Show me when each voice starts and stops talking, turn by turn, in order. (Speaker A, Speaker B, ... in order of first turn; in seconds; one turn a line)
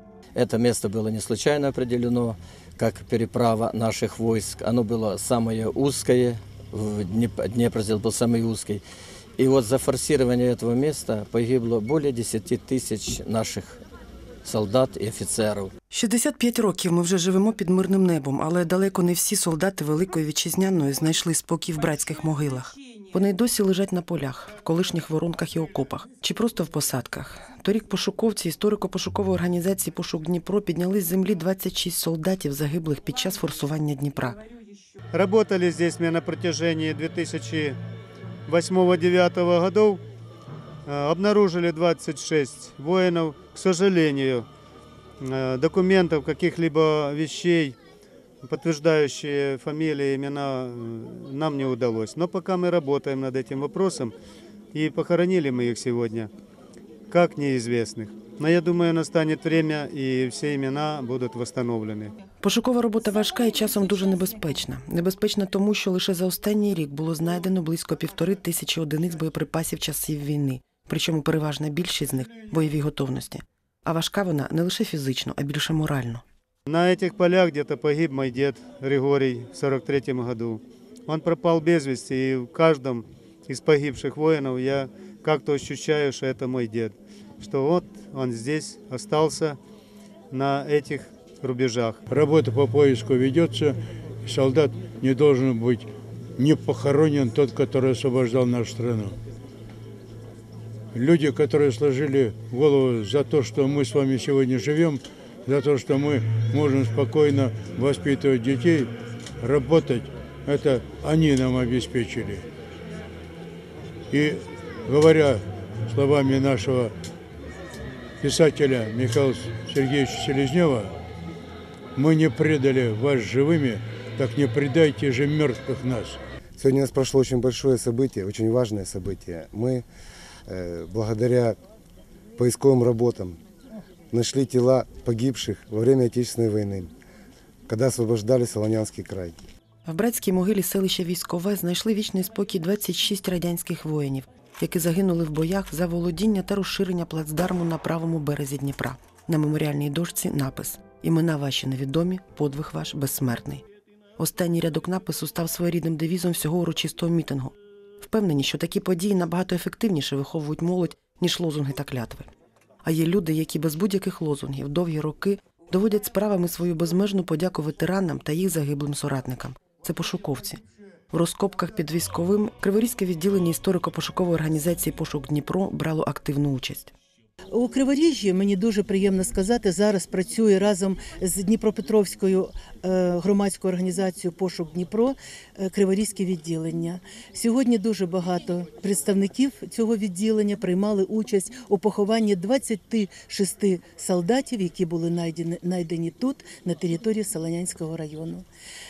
Speaker A: 0.3-8.8
Speaker A: 9.4-13.8
Speaker A: 14.4-15.7
Speaker B: 15.9-34.4
Speaker C: 35.1-37.7
Speaker C: 38.5-40.0
Speaker C: 40.9-44.5
Speaker C: 45.2-47.8
Speaker C: 48.4-54.1
Speaker C: 54.8-56.3
Speaker C: 57.1-62.1
Speaker B: 62.4-76.2
Speaker C: 76.7-89.6
Speaker C: 90.3-92.0
Speaker D: 92.1-95.9
Speaker D: 96.4-99.2
Speaker D: 100.9-112.5
Speaker D: 114.1-116.9
Speaker D: 118.2-120.9
Speaker D: 122.0-126.2
Speaker E: 126.6-129.8
Speaker E: 130.5-131.6
Speaker E: 132.4-133.4
Speaker E: 134.1-136.9
Speaker E: 137.7-139.4
Speaker B: 139.9-153.7
Speaker B: 154.2-162.3
Speaker B: 162.8-176.9
Speaker F: 177.5-198.4